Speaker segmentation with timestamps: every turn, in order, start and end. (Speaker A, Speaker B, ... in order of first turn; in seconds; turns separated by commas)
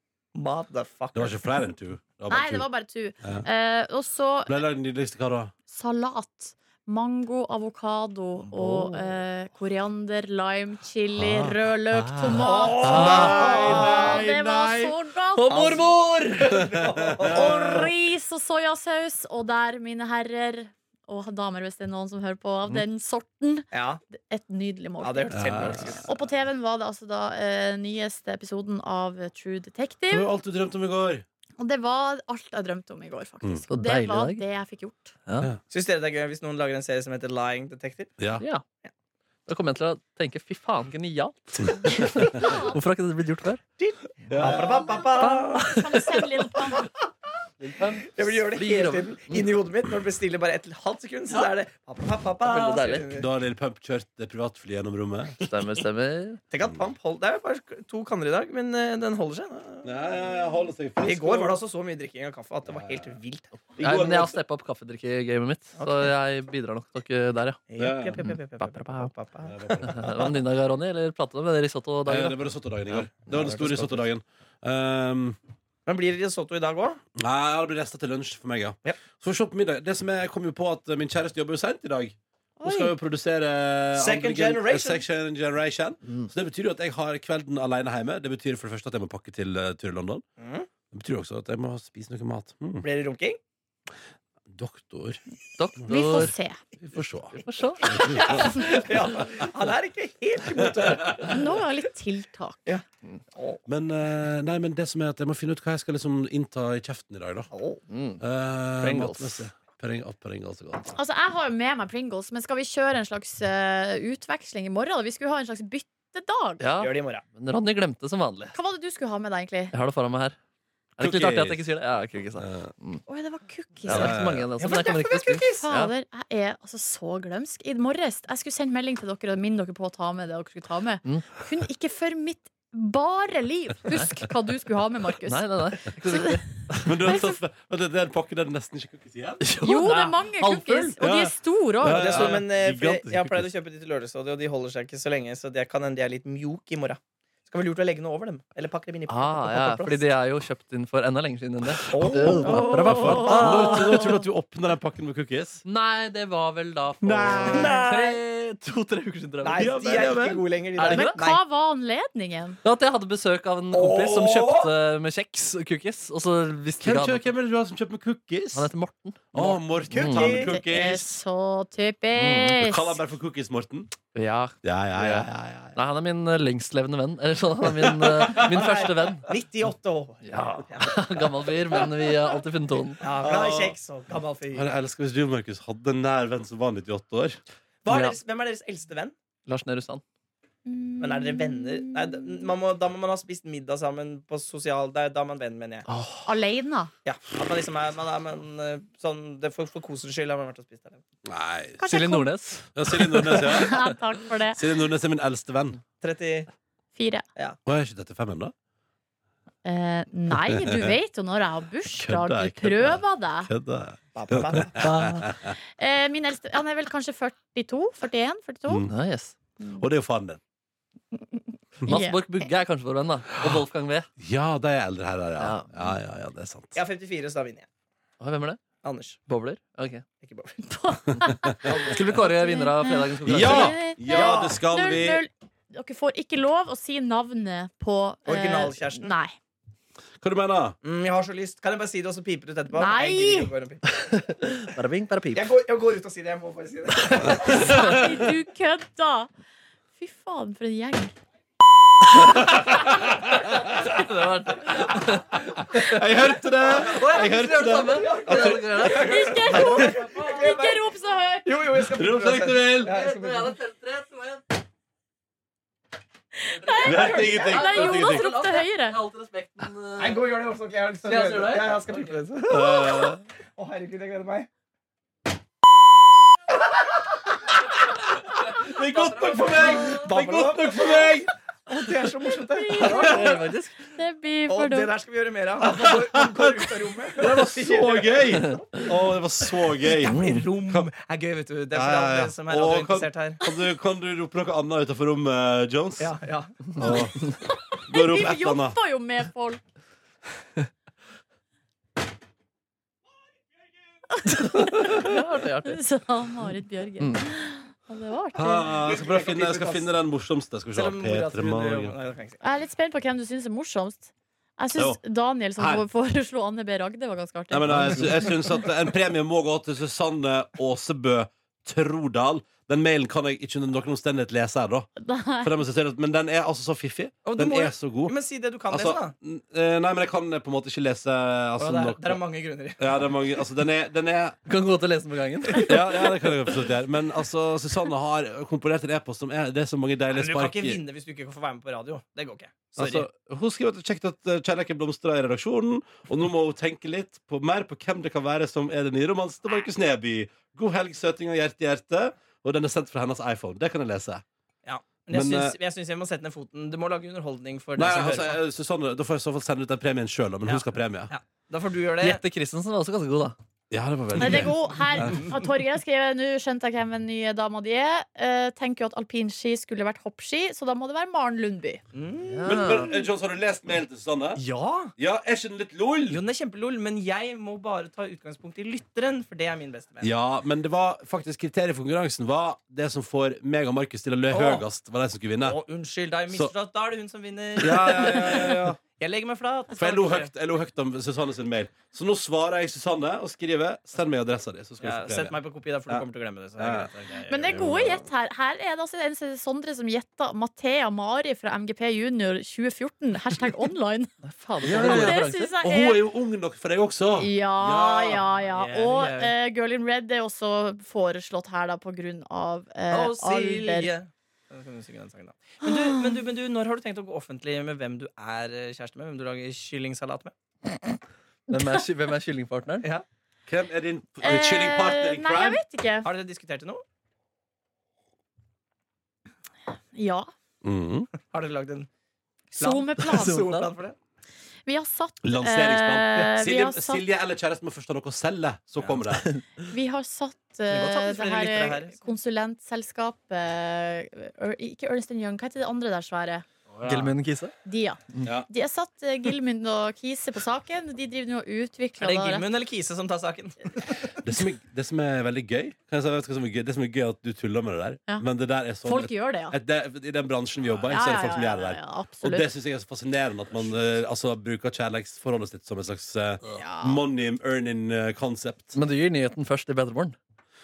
Speaker A: 0.3-1.5, Speaker B: 1.1-2.7, Speaker C: 2.3-4.5, Speaker B: 4.5-5.5, Speaker C: 5.7-15.6, Speaker D: 8.6-9.0, Speaker B: 11.2-14.9, Speaker A: 12.3-14.2, Speaker D: 12.8-13.8, Speaker D: 15.3-16.7, Speaker A: 15.5-15.8, Speaker A: 16.4-17.8, Speaker B: 17.0-17.8, Speaker C: 17.3-30.3, Speaker A: 23.7-24.0, Speaker A: 25.0-26.2, Speaker B: 25.3-26.0, Speaker B: 30.1-31.2, Speaker C: 31.6-35.1, Speaker D: 33.7-34.4, Speaker A: 35.7-38.2, Speaker B: 38.2-38.4, Speaker D: 39.5-43.6, Speaker C: 42.1-42.8, Speaker A: 43.8-45.8, Speaker B: 44.3-45.0, Speaker D: 45.2-46.3, Speaker C: 45.5-46.9, Speaker D: 47.6-49.5, Speaker A: 48.1-53.3, Speaker D: 52.4-53.1, Speaker B: 53.1-55.4, Speaker D: 55.4-56.4, Speaker A: 56.5-59.9, Speaker B: 59.8-61.6, Speaker A: 61.0-63.5, Speaker B: 62.7-63.2, Speaker B: 63.8-64.4, Speaker D: 63.8-67.6, Speaker A: 65.8-66.1, Speaker A: 67.7-70.2, Speaker B: 67.8-68.2, Speaker D: 68.2-69.1, Speaker B: 69.4-70.3, Speaker D: 69.8-72.4, Speaker B: 72.0-75.4, Speaker D: 73.3-73.9, Speaker A: 75.8-77.0, Speaker B: 77.2-90.2, Speaker C: 82.6-82.9, Speaker A: 83.9-85.0, Speaker A: 90.4-90.7, Speaker B: 90.9-92.8, Speaker A: 92.8-93.4, Speaker B: 94.5-95.2, Speaker D: 95.6-96.3, Speaker C: 95.9-96.6, Speaker B: 96.8-98.8, Speaker D: 97.3-98.5, Speaker A: 98.0-101.6, Speaker B: 100.6-101.3, Speaker C: 101.2-102.7, Speaker A: 102.7-103.6, Speaker B: 103.7-107.5, Speaker A: 107.5-107.8, Speaker D: 107.9-108.2, Speaker B: 108.2-110.9, Speaker D: 108.8-109.4, Speaker C: 110.9-116.6, Speaker D: 116.6-118.5, Speaker A: 116.8-117.2, Speaker C: 118.5-119.7, Speaker D: 119.7-120.3, Speaker D: 121.0-123.0, Speaker B: 121.0-121.6, Speaker B: 122.4-122.7, Speaker C: 123.1-124.1, Speaker D: 123.9-125.9, Speaker B: 123.9-124.5, Speaker A: 124.6-125.7, Speaker C: 125.6-136.4, Speaker D: 131.0-131.3, Speaker D: 135.2-136.9, Speaker B: 136.8-139.4, Speaker C: 137.0-137.4, Speaker D: 139.4-141.0, Speaker C: 139.6-142.3, Speaker B: 141.0-143.5, Speaker A: 141.8-150.0, Speaker D: 149.1-154.1, Speaker A: 151.9-153.7, Speaker B: 152.0-155.6, Speaker C: 152.6-154.1, Speaker D: 155.6-160.1, Speaker B: 157.0-157.8, Speaker A: 157.4-158.2, Speaker A: 159.4-161.4, Speaker B: 159.6-160.4, Speaker D: 160.8-161.2, Speaker C: 160.9-162.6, Speaker D: 162.6-167.2, Speaker A: 163.7-164.6, Speaker B: 166.8-168.7, Speaker D: 168.5-169.2, Speaker B: 169.3-171.1, Speaker A: 169.3-170.5, Speaker D: 169.9-170.4, Speaker C: 170.4-173.0, Speaker D: 172.1-172.6, Speaker B: 172.6-173.9, Speaker D: 174.1-179.3, Speaker B: 174.6-175.8, Speaker B: 177.8-178.4, Speaker A: 178.3-181.0, Speaker D: 180.2-183.0, Speaker A: 183.0-184.7, Speaker B: 183.2-183.8, Speaker B: 184.5-187.4, Speaker A: 187.8-189.1, Speaker D: 187.9-188.2, Speaker D: 189.5-190.0, Speaker C: 190.7-192.4, Speaker A: 191.0-195.8, Speaker D: 195.9-196.3, Speaker C: 196.2-196.9, Speaker A: 197.0-201.0, Speaker B: 201.2-201.9, Speaker C: 201.8-202.3, Speaker D: 201.8-203.8, Speaker B: 202.7-203.8, Speaker C: 203.2-204.6, Speaker B: 204.5-205.8, Speaker A: 206.0-206.5, Speaker C: 206.9-207.2, Speaker B: 207.6-208.5, Speaker C: 209.6-213.5, Speaker B: 210.5-210.9, Speaker B: 211.9-215.6, Speaker A: 214.1-214.8, Speaker D: 214.8-215.3, Speaker C: 215.8-218.8, Speaker B: 218.7-218.9, Speaker D: 218.9-219.3, Speaker B: 219.8-220.4, Speaker C: 221.1-222.5, Speaker D: 221.8-224.1, Speaker B: 224.2-226.8, Speaker D: 225.4-225.7, Speaker A: 226.7-227.7, Speaker D: 228.2-228.6, Speaker A: 228.8-229.2, Speaker D: 229.3-230.1, Speaker A: 230.2-230.6, Speaker C: 230.6-239.3, Speaker B: 231.1-231.7, Speaker D: 231.7-233.8, Speaker B: 233.2-235.2, Speaker A: 234.1-234.6, Speaker A: 238.2-239.1, Speaker B: 240.2-240.8, Speaker A: 240.8-244.0, Speaker C: 242.7-243.5, Speaker D: 243.9-245.5, Speaker A: 245.3-248.0, Speaker C: 247.4-249.3, Speaker C: 250.0-251.1, Speaker D: 252.1-256.0, Speaker B: 252.2-253.9, Speaker B: 255.6-258.9, Speaker A: 256.8-260.9, Speaker D: 256.8-259.9, Speaker C: 258.8-261.5, Speaker B: 259.5-259.9, Speaker A: 261.4-263.5, Speaker B: 261.9-263.0, Speaker D: 262.8-264.5, Speaker C: 266.4-269.0, Speaker D: 266.6-270.2, Speaker B: 266.8-268.3, Speaker A: 270.0-274.5, Speaker D: 271.0-272.2, Speaker B: 272.5-273.2, Speaker B: 278.3-281.3, Speaker D: 278.6-280.0, Speaker A: 279.4-283.4, Speaker C: 282.5-284.9, Speaker D: 282.7-283.8, Speaker A: 284.5-288.9, Speaker B: 285.6-290.9, Speaker D: 288.3-288.8, Speaker A: 290.0-293.4, Speaker D: 290.1-290.4, Speaker B: 291.7-296.1, Speaker A: 296.0-297.0, Speaker B: 296.7-298.8, Speaker C: 297.7-299.6, Speaker C: 304.1-308.7, Speaker D: 304.8-305.8, Speaker D: 307.0-307.2, Speaker B: 308.3-311.9, Speaker A: 308.8-309.9, Speaker A: 310.7-312.4, Speaker C: 312.4-318.4, Speaker B: 315.6-315.8, Speaker B: 317.5-324.9, Speaker D: 317.7-318.1, Speaker C: 325.0-325.5, Speaker B: 325.4-328.1, Speaker A: 327.2-329.1, Speaker B: 328.7-332.2, Speaker A: 331.6-333.1, Speaker B: 332.8-334.4, Speaker D: 334.5-336.1, Speaker B: 335.6-340.8, Speaker A: 340.1-343.0, Speaker B: 342.8-354.2, Speaker A: 354.6-358.4, Speaker B: 355.1-355.6, Speaker B: 357.8-361.1, Speaker A: 360.4-362.2, Speaker D: 362.0-363.4, Speaker B: 363.7-365.2, Speaker C: 364.2-371.8, Speaker A: 371.9-372.9, Speaker D: 372.2-372.9, Speaker B: 372.4-374.4, Speaker A: 374.4-374.9, Speaker B: 375.0-376.2, Speaker A: 376.1-380.1, Speaker B: 380.0-385.6, Speaker A: 384.3-384.6, Speaker A: 385.4-390.3, Speaker B: 387.6-388.8, Speaker B: 389.7-395.4, Speaker A: 394.8-397.6, Speaker B: 396.6-396.9, Speaker C: 397.3-404.1, Speaker B: 397.4-398.1, Speaker D: 404.2-405.5, Speaker B: 404.6-408.2, Speaker C: 404.6-406.0, Speaker C: 407.1-413.9, Speaker A: 408.5-409.3, Speaker A: 412.9-420.3, Speaker C: 415.7-416.1, Speaker D: 421.5-422.9, Speaker B: 423.5-425.6, Speaker C: 424.2-426.1, Speaker A: 426.0-426.8, Speaker C: 429.9-430.3, Speaker B: 430.6-431.1, Speaker A: 431.2-431.9, Speaker C: 432.5-433.4, Speaker A: 432.6-434.0, Speaker D: 433.0-433.7, Speaker C: 434.7-437.0, Speaker B: 435.2-439.3, Speaker C: 439.7-446.4, Speaker A: 440.7-442.0, Speaker A: 446.7-447.1, Speaker D: 446.9-447.5, Speaker C: 447.6-452.4, Speaker A: 452.0-454.1, Speaker B: 454.2-468.8, Speaker C: 458.8-459.6, Speaker C: 460.9-462.5, Speaker C: 466.5-467.0, Speaker D: 468.7-470.1